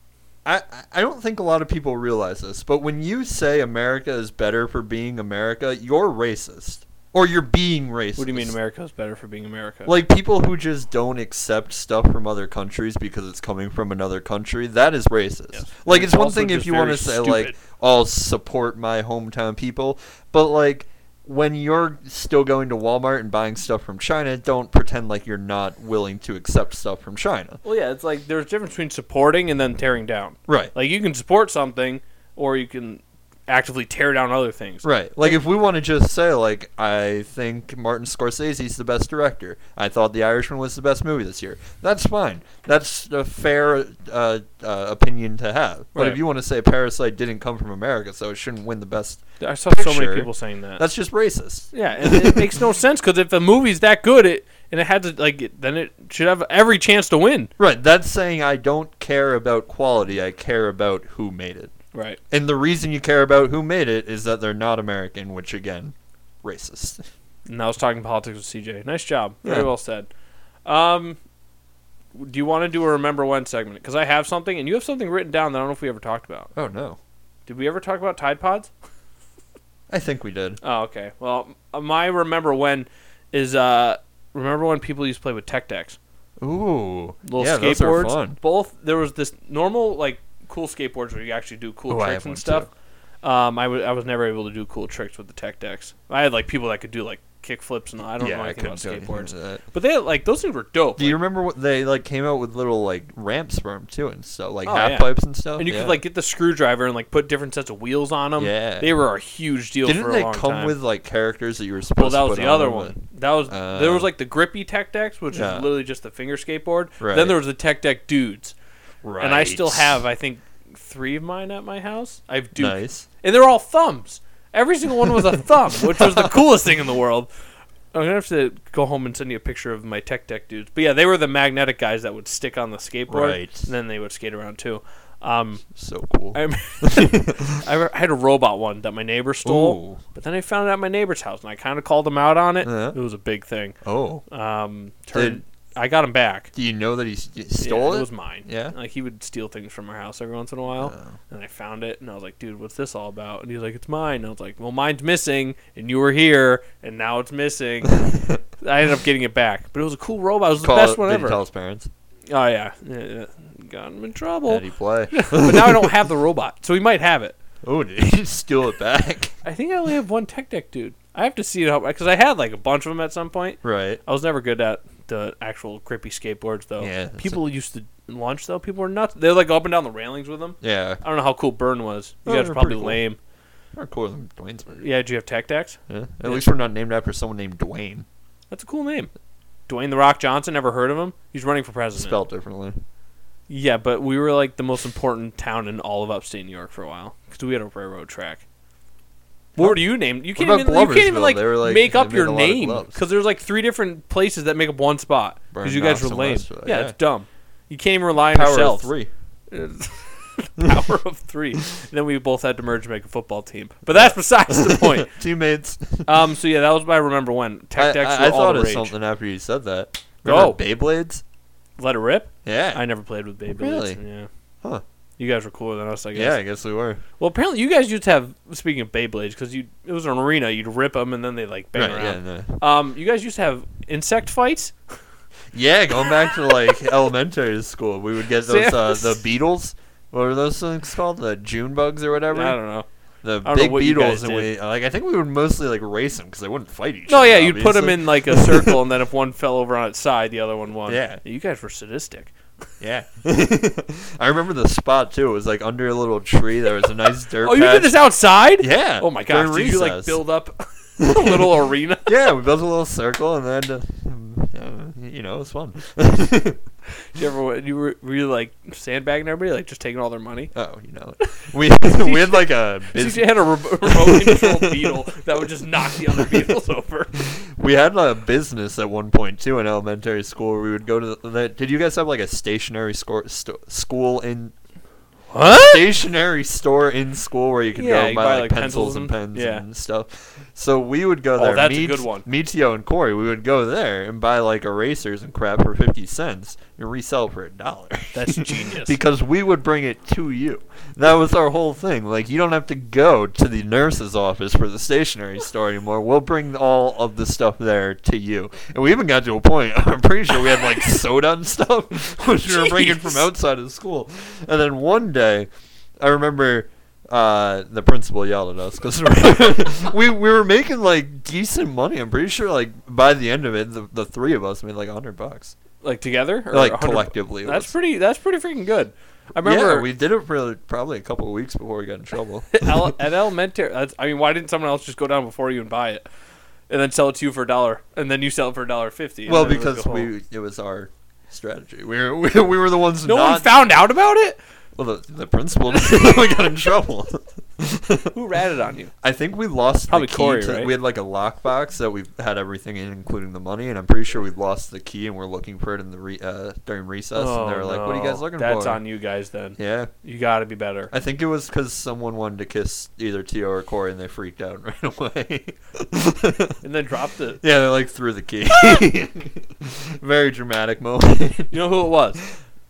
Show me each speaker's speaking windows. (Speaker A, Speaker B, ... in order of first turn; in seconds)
Speaker A: 0.5-8.6, 9.9-27.6, 30.5-30.7, 34.8-52.6, 57.6-61.7, 62.3-67.1, 69.4-69.7, 76.5-77.0, 79.9-80.6, 86.4-88.4, 91.9-92.7, 98.2-99.6, 101.0-106.0, 108.4-108.9, 109.8-114.1, 115.3-115.7, 117.0-117.4, 119.0-120.0, 122.6-123.1, 125.8-126.4, 133.1-133.7, 135.8-137.6, 139.4-140.0, 142.6-143.0, 143.8-144.2, 145.1-145.4, 146.5-148.8, 150.8-151.2, 157.8-158.4, 160.6-161.9, 164.5-166.0, 167.6-169.4, 173.6-174.0, 176.8-177.4, 180.6-181.0, 182.3-183.0, 183.8-184.8, 185.9-188.1, 192.0-192.8, 199.6-199.8, 200.3-203.0, 205.5-206.9, 208.3-209.1, 210.6-210.9, 213.9-216.2, 217.8-221.2, 222.4-222.8, 223.5-224.0, 226.2-227.0, 231.8-232.6, 235.5-242.6, 243.2-248.8, 250.9-251.2, 252.8-257.9, 258.6-260.2, 261.0-266.6, 270.5-276.6, 277.2-284.5, 285.5-315.5, 316.0-325.6, 326.5-327.7, 329.4-333.0, 339.3-343.5, 344.8-348.1, 349.0-358.8, 359.6-359.9, 360.9-366.6, 367.4-371.6
Speaker B: 8.2-9.9, 15.5-17.6, 27.6-35.4, 46.0-46.2, 49.4-50.8, 51.7-57.5, 61.9-62.2, 67.5-70.1, 70.7-71.2, 72.1-76.5, 77.5-78.7, 80.6-86.0, 87.2-92.7, 93.2-101.2, 104.7-110.8, 112.0-118.5, 119.2-127.3, 127.9-135.6, 136.3-143.8, 144.3-146.5, 147.6-158.1, 158.6-161.4, 162.3-167.4, 169.4-183.2, 184.7-186.4, 188.5-189.1, 189.7-192.2, 193.5-198.4, 199.6-208.9, 209.5-215.1, 216.1-218.9, 220.2-220.6, 221.8-224.3, 225.2-226.4, 227.2-234.8, 238.4-239.2, 242.3-242.9, 243.4-244.5, 247.1-252.3, 257.4-262.1, 267.0-270.5, 271.2-277.3, 285.3-285.9, 287.8-289.6, 291.4-292.3, 298.1-299.0, 312.4-313.3, 325.8-329.9, 332.5-336.1, 336.7-340.1, 343.1-344.4, 348.1-348.9, 349.9-350.7, 357.1-360.9, 366.6-367.4, 371.5-372.2